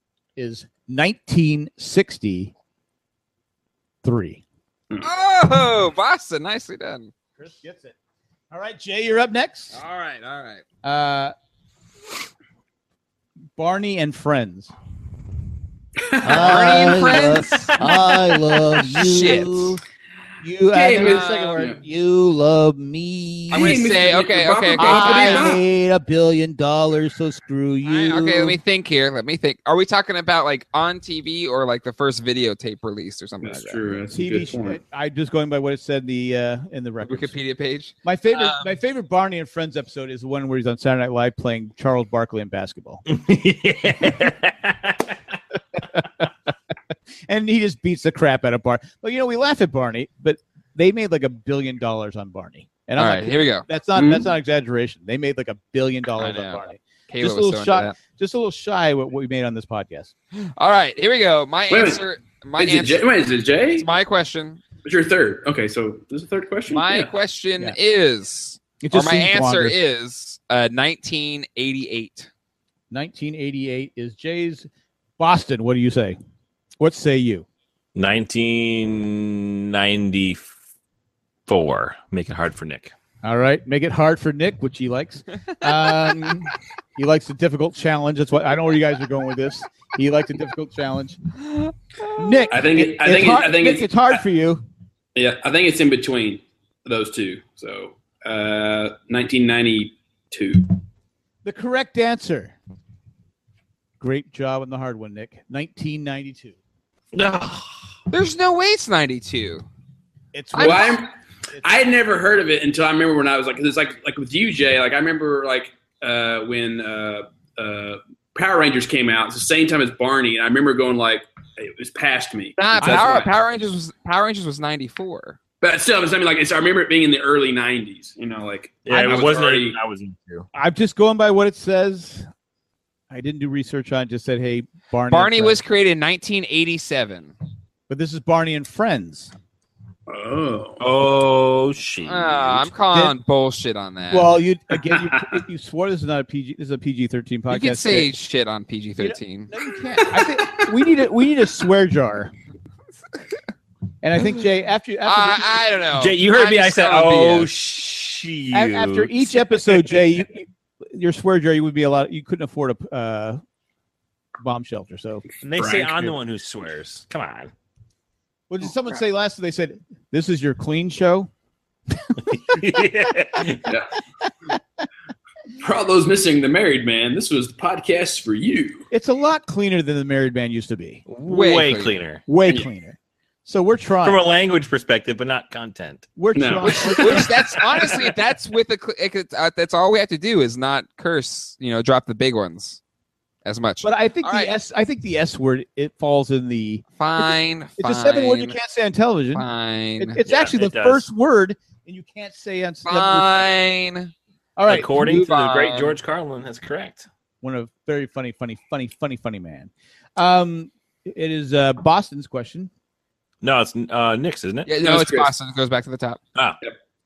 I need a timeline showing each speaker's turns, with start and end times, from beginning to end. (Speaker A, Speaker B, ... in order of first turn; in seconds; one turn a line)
Speaker A: 0.4-2.5
Speaker A: 4.0-4.4
Speaker B: 5.0-7.1
Speaker A: 7.4-8.0
Speaker A: 8.5-9.8
Speaker B: 9.7-10.6
Speaker A: 10.8-11.3
Speaker A: 13.6-14.7
Speaker C: 16.1-17.2
Speaker A: 16.2-19.8
Speaker B: 16.2-18.1
Speaker B: 18.7-19.8
Speaker A: 20.4-23.8
Speaker C: 20.7-21.8
Speaker B: 20.9-21.6
Speaker B: 23.5-25.5
Speaker C: 23.5-25.6
Speaker A: 24.8-28.6
Speaker B: 27.9-33.8
Speaker C: 33.4-34.8
Speaker A: 34.1-37.4
Speaker B: 37.1-38.7
Speaker A: 38.0-43.0
Speaker D: 43.1-45.2
Speaker A: 45.9-46.2
Speaker A: 47.3-60.1
Speaker B: 53.0-53.7
Speaker C: 54.0-54.3
Speaker B: 56.2-58.0
Speaker B: 60.4-63.0
Speaker C: 61.7-62.0
Speaker C: 62.6-63.9
Speaker B: 63.8-64.6
Speaker C: 64.8-67.1
Speaker B: 66.7-72.3
Speaker A: 68.8-69.8
Speaker A: 72.9-76.2
Speaker A: 76.8-77.5
Speaker D: 78.0-80.5
Speaker D: 81.5-82.9
Speaker A: 83.2-91.2
Speaker A: 92.1-94.6
Speaker C: 92.5-94.2
Speaker C: 95.2-100.8
Speaker A: 101.4-102.6
Speaker A: 104.0-106.6
Speaker D: 107.1-107.7
Speaker B: 108.1-109.7
Speaker A: 110.3-111.8
Speaker B: 110.5-111.0
Speaker C: 110.6-123.3
Speaker B: 122.6-125.4
Speaker A: 122.8-123.3
Speaker C: 125.6-129.8
Speaker D: 128.8-130.5
Speaker A: 128.9-129.2
Speaker A: 130.5-132.3
Speaker A: 133.1-135.6
Speaker B: 135.1-137.3
Speaker A: 137.9-139.3
Speaker C: 140.1-140.8
Speaker D: 140.8-142.7
Speaker B: 142.1-144.3
Speaker A: 144.1-148.1
Speaker C: 144.9-145.2
Speaker B: 147.5-149.5
Speaker A: 149.0-152.3
Speaker C: 150.2-150.6
Speaker A: 154.0-155.6
Speaker B: 155.0-157.5
Speaker D: 156.0-159.2
Speaker A: 158.5-163.4
Speaker A: 164.4-165.2
Speaker D: 165.4-167.5
Speaker C: 165.6-166.1
Speaker A: 168.5-171.3
Speaker D: 172.2-173.7
Speaker C: 175.6-178.9
Speaker A: 178.9-181.1
Speaker D: 181.1-182.2
Speaker B: 181.2-181.9
Speaker A: 182.3-184.2
Speaker D: 184.0-186.1
Speaker A: 186.2-187.7
Speaker C: 186.3-187.3
Speaker B: 186.6-192.8
Speaker B: 193.4-194.6
Speaker A: 193.8-199.5
Speaker B: 197.0-198.6
Speaker B: 199.3-200.2
Speaker A: 200.0-203.5
Speaker D: 200.3-201.1
Speaker B: 202.9-204.1
Speaker A: 204.6-205.2
Speaker D: 204.7-207.1
Speaker B: 204.9-205.9
Speaker A: 207.4-212.7
Speaker D: 213.4-214.7
Speaker B: 214.7-216.2
Speaker C: 214.8-215.3